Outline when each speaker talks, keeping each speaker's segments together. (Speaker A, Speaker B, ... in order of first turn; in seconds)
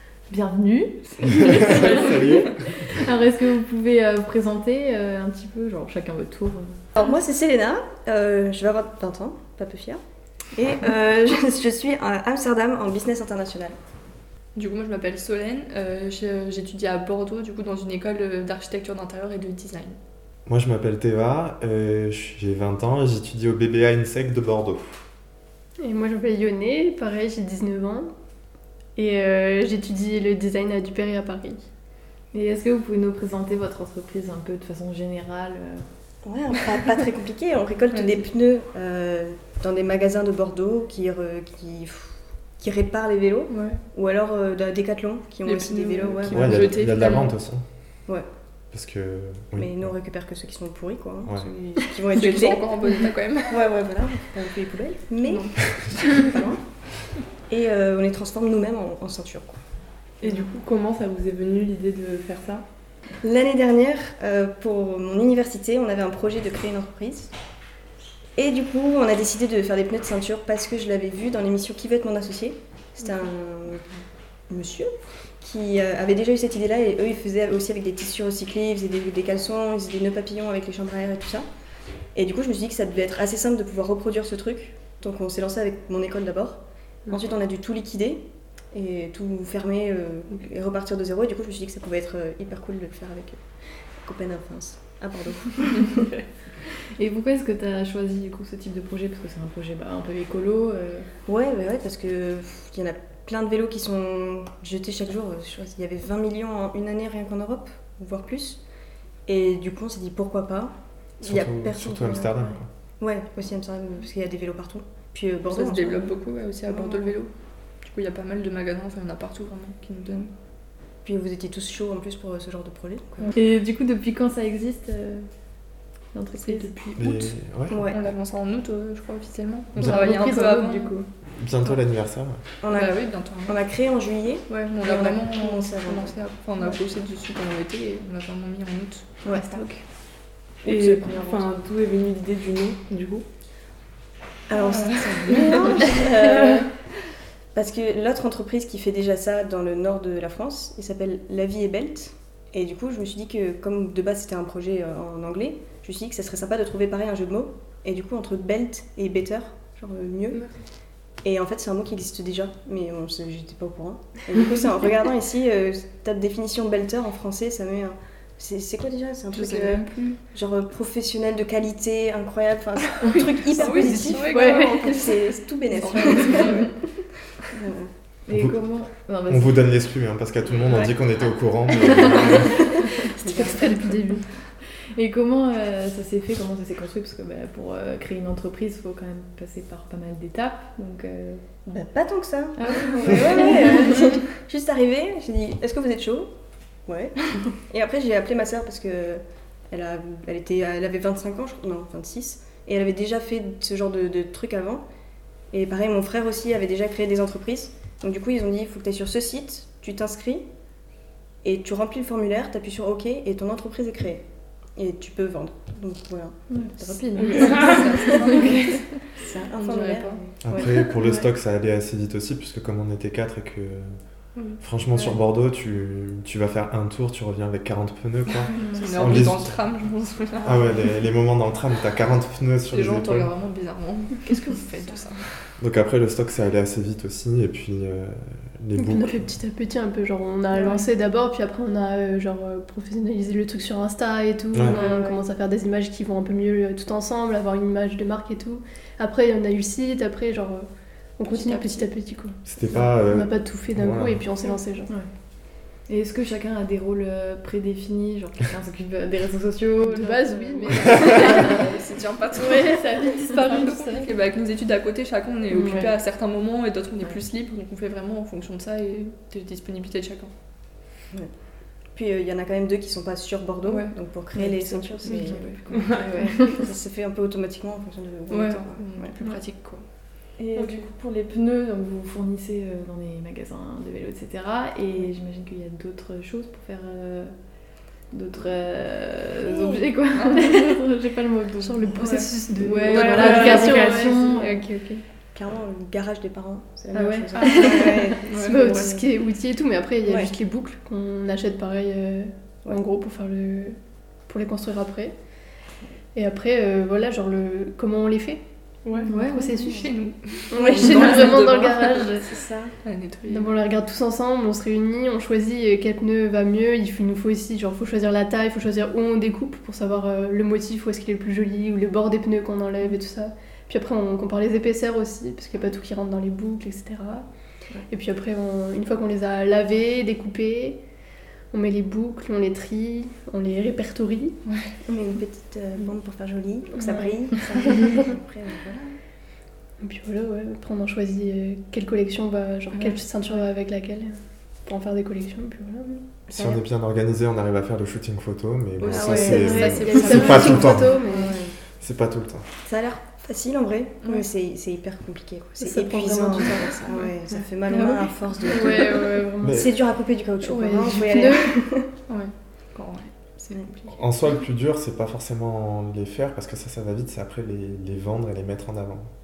Speaker A: 0.3-6.8, 32.3-35.9, 97.0-101.1, 123.3-125.3, 126.1-126.8, 178.3-179.7, 184.9-191.4, 192.6-194.1, 216.5-218.5, 255.8-261.5, 274.4-276.5, 280.4-287.3, 288.1-294.6, 309.1-309.5
Speaker B: 1.3-2.7, 20.5-25.0, 46.3-47.6, 48.7-49.9, 111.2-112.7, 127.0-127.9, 131.4-132.4, 178.3-178.6, 179.3-182.7, 220.4-229.6, 230.4-233.3, 235.6-239.2, 244.5-244.8, 252.5-254.2, 346.3-351.0, 351.8-352.5, 359.4-359.8, 363.9-369.1
Speaker C: 7.0-10.0, 10.5-13.8, 36.2-46.8, 49.6-52.8, 53.4-56.6, 57.5-59.6, 63.2-67.3, 68.4-73.9, 74.5-74.9, 75.4-81.5, 82.1-93.4, 94.0-96.1, 101.3-108.6, 109.3-112.3, 113.0-116.2, 116.7-117.2, 121.0-123.3, 127.7-128.0, 132.6-136.2, 140.6-141.4, 144.5-146.7, 147.5-160.4, 161.2-176.9, 177.5-177.9, 182.4-183.9, 191.7-196.3, 196.9-204.8, 205.5-210.4, 211.4-214.2, 214.8-218.5, 219.2-221.3, 228.8-229.1, 230.4-230.9, 234.3-235.0, 240.5-240.9, 244.7-245.3, 271.9-279.1, 295.3-299.0, 300.0-300.3, 309.1-309.9, 310.5-311.5, 312.2-312.7, 334.9-339.0, 346.4-346.6, 348.9-351.6, 352.6-361.9, 363.4-364.0
Speaker D: 14.6-20.0, 37.9-38.2, 43.5-43.8, 45.4-47.3, 52.1-53.6, 115.5-117.3, 117.8-120.3, 126.4-127.3, 127.9-130.9, 132.7-133.6, 134.5-139.7, 144.5-146.1, 169.3-170.2, 173.1-176.7, 180.6-180.9, 217.2-220.2, 224.4-225.2, 228.7-230.7, 232.7-235.3, 251.3-251.9, 261.0-270.3, 273.7-273.9, 275.0-276.5, 278.3-279.9, 289.5-290.8, 292.8-295.0, 296.9-298.9, 309.7-312.2, 312.8-313.6, 334.5-334.7, 342.7-343.4, 348.8-350.8, 357.7-359.3, 362.1-363.1
Speaker E: 25.8-28.1, 29.0-31.6, 129.8-131.1, 139.3-139.8, 173.6-175.0, 175.9-176.2, 182.6-184.2, 238.8-254.9, 259.8-261.6, 262.4-264.1, 265.5-265.9, 280.6-280.9, 291.5-294.6, 297.4-303.8, 304.3-305.1, 306.1-309.9, 310.5-312.3, 313.3-327.3, 327.9-330.8, 331.5-334.4, 336.7-338.1, 339.8-346.1, 348.9-351.5, 355.6-356.9, 358.4-359.7, 360.4-361.7
Speaker F: 60.2-62.6, 140.6-143.3, 145.8-146.6, 217.3-217.8, 275.7-276.0, 308.9-309.1